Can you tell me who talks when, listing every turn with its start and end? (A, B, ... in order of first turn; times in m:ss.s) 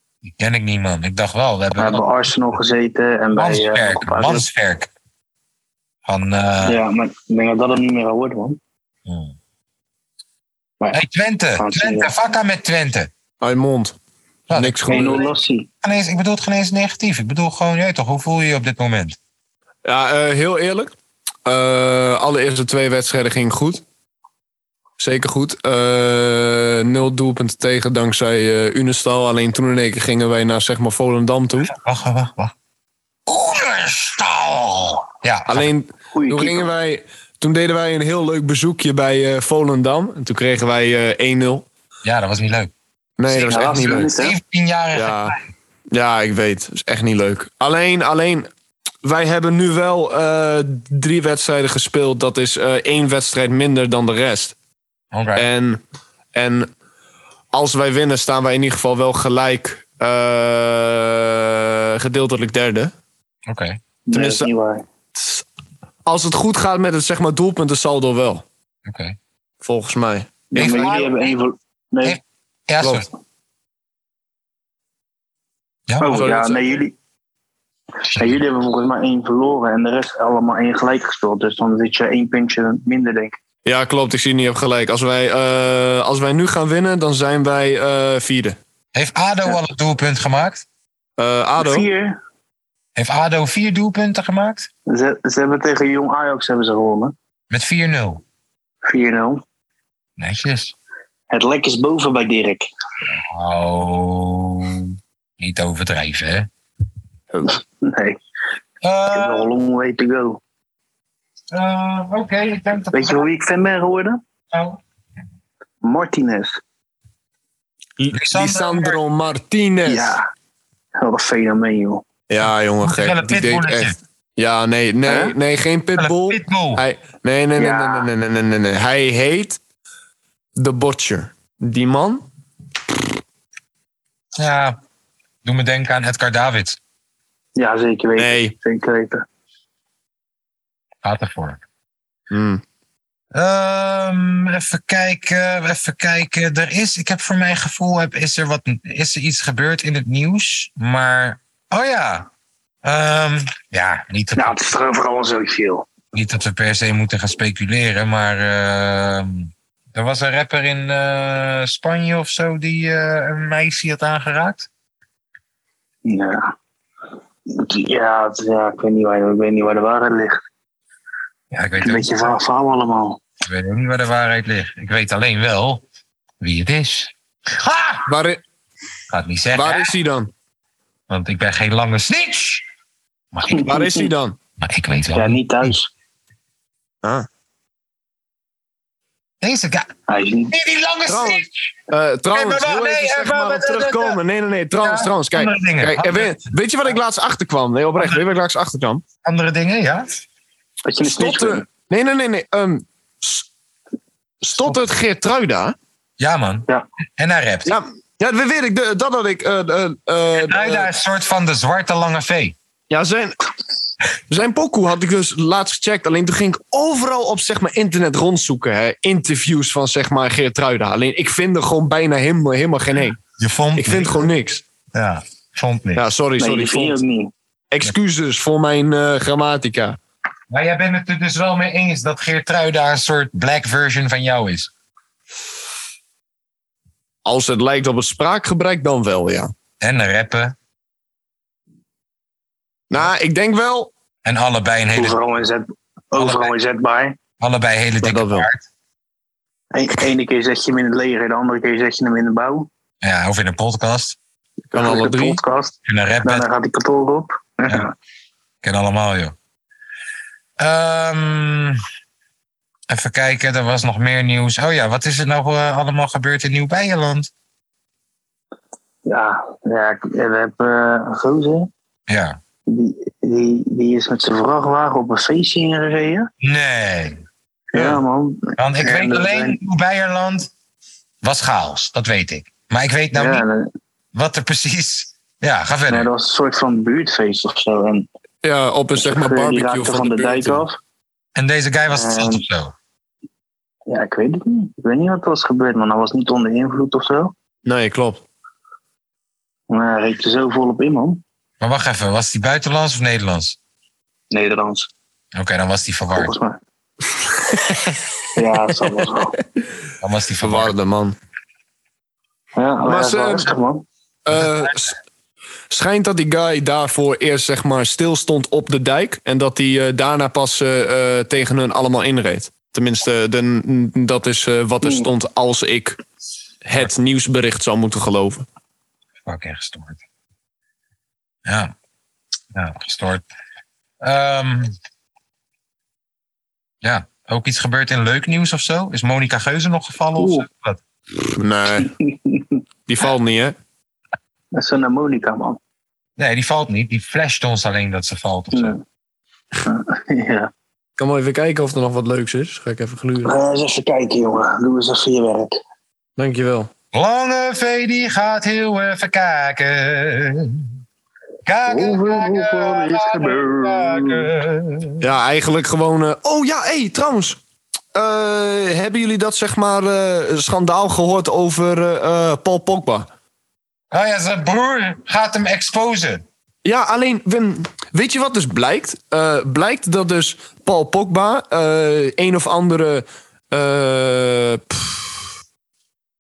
0:00.2-0:02.0 A
0:01.8-0:04.4 B
0:03.3-0:04.9 A
0:06.0-0:06.8 A
0:06.6-0:08.6 B
0:09.0-0:09.3 A
0:10.9-0:13.1 A
0:11.6-0:12.1 B
0:13.4-0:13.9 C
0:14.5-0:15.2 A
0:14.5-0:15.2 C
0:14.9-0:15.7 B
0:15.8-0:19.2 A
0:19.8-0:20.9 C
0:21.4-0:23.8 C
0:25.0-0:31.7 C
0:31.6-0:32.5 A
0:33.3-0:35.7 A
0:35.5-0:41.6 C
0:36.1-0:36.7 B
0:42.0-0:42.7 A
0:43.2-0:44.1 C
0:43.3-0:45.4 A
0:43.5-0:44.4 B
0:44.9-0:45.4 C
0:45.9-0:48.5 C
0:49.0-0:54.5 C
0:55.1-0:55.5 A
0:55.4-0:55.8 C
0:56.3-0:56.7 C
0:57.5-1:02.9 C
1:03.5-1:03.8 A
1:04.1-1:04.8 B
1:04.1-1:04.5 C
1:05.2-1:05.4 C
1:06.0-1:08.4 C
1:08.8-1:09.2 A
1:09.6-1:10.8 C
1:10.5-1:12.2 B
1:10.5-1:11.4 A
1:12.0-1:13.1 A
1:12.8-1:13.0 C
1:15.9-1:16.2 A
1:16.0-1:16.9 B
1:16.0-1:16.7 C
1:18.0-1:23.4 B
1:18.1-1:18.4 A
1:23.6-1:28.6 C
1:28.9-1:30.6 A
1:31.2-1:31.9 C
1:31.6-1:32.2 B
1:33.0-1:34.7 A
1:34.9-1:37.1 B
1:37.5-1:38.2 A
1:38.8-1:39.4 B
1:40.2-1:40.7 A
1:41.3-1:42.7 B
1:43.1-1:46.5 A
1:47.4-1:48.2 B
1:48.8-1:49.5 A
1:49.1-1:50.4 B
1:51.5-1:53.2 A
1:52.9-1:54.2 B
1:54.5-1:54.8 A
1:55.8-1:56.6 B
1:58.0-2:00.2 C
1:58.1-1:59.0 A
1:59.8-2:00.2 B
2:01.0-2:02.0 B
2:02.3-2:09.6 C
2:02.8-2:04.0 A
2:05.1-2:05.3 B
2:06.0-2:06.8 A
2:07.6-2:08.1 B
2:10.6-2:12.2 C
2:14.4-2:14.8 A
2:15.4-2:16.8 A
2:17.6-2:19.2 B
2:18.2-2:18.5 C
2:21.0-2:21.6 A
2:22.3-2:22.6 C
2:23.3-2:32.3 A
2:32.8-2:34.6 A
2:34.4-2:35.8 B
2:36.1-2:44.7 A
2:46.0-2:46.5 B
2:47.5-2:50.4 B
2:51.5-2:52.4 A
2:51.8-2:53.2 B
2:53.4-2:55.8 A
2:56.4-2:58.1 A
2:58.1-2:58.4 C
2:59.1-2:59.9 A
2:59.5-3:00.3 C
3:01.1-3:02.6 A
3:03.3-3:03.7 A
3:03.5-3:04.1 B
3:03.6-3:04.4 C
3:04.6-3:05.7 A
3:05.1-3:05.9 B
3:09.4-3:09.9 A
3:10.1-3:10.5 B
3:10.5-3:11.8 A
3:11.1-3:19.0 C
3:12.3-3:14.2 A
3:14.8-3:16.4 A
3:19.2-3:20.2 A
3:20.8-3:21.6 B
3:21.0-3:23.4 C
3:24.4-3:25.7 C
3:26.2-3:26.6 A
3:27.2-3:27.8 A
3:27.7-3:30.9 C
3:30.3-3:32.6 A
3:32.9-3:33.4 C
3:34.3-3:43.2 C
3:43.4-3:44.2 A
3:43.8-3:44.6 C
3:44.9-3:46.0 A
3:46.0-3:47.0 C
3:46.4-3:47.3 B
3:47.7-3:50.0 C
3:50.5-3:54.7 A
3:57.2-3:59.5 C
3:59.8-4:00.5 A
4:02.9-4:03.9 C
4:04.2-4:05.2 A
4:04.9-4:07.2 B
4:06.2-4:06.5 A
4:07.4-4:08.6 A
4:08.0-4:08.5 C
4:09.7-4:12.7 B
4:13.0-4:14.2 A
4:14.7-4:15.4 C
4:14.7-4:17.9 B
4:15.8-4:16.5 A
4:18.6-4:19.3 A
4:20.6-4:21.8 A
4:22.9-4:27.3 A
4:29.0-4:31.7 B
4:32.1-4:32.4 A
4:32.7-4:36.3 B
4:36.4-4:37.2 A
4:37.7-4:39.6 B
4:37.7-4:38.0 C
4:38.6-4:40.5 A
4:41.2-4:43.4 A
4:43.1-4:43.7 B
4:44.1-4:46.1 A
4:45.9-4:48.0 B
4:48.4-4:50.6 C
4:49.0-4:50.8 B
4:51.4-4:52.7 A
4:51.9-4:52.4 B
4:53.9-4:57.3 B
4:57.6-4:58.2 C
4:59.7-5:01.2 B
5:01.6-5:03.6 A
5:04.3-5:04.9 B
5:05.3-5:06.3 A
5:06.1-5:06.6 B
5:07.5-5:07.9 C
5:08.3-5:09.3 B
5:10.0-5:10.7 A
5:10.4-5:11.2 C
5:12.6-5:13.8 B
5:12.8-5:13.5 C
5:14.2-5:14.9 C
5:14.4-5:14.7 A
5:15.7-5:26.0 C
5:24.8-5:25.1 B
5:26.6-5:28.4 C
5:29.2-5:30.0 A
5:31.4-5:31.7 A
5:32.5-5:33.2 A
5:34.0-5:34.7 A
5:36.8-5:40.8 A
5:40.2-5:40.4 B
5:41.4-5:41.9 C
5:41.8-5:42.6 B
5:42.9-5:43.6 C
5:44.5-5:45.6 B
5:46.2-5:48.8 A
5:48.5-5:48.8 B
5:49.6-5:50.5 B
5:51.0-5:53.3 C
5:53.2-5:55.6 B
5:56.2-5:56.7 C
5:56.9-6:00.7 A
6:01.4-6:05.1 A
6:01.7-6:04.3 B
6:05.0-6:07.4 C
6:07.9-6:13.1 C
6:13.9-6:16.2 A
6:16.6-6:25.2 C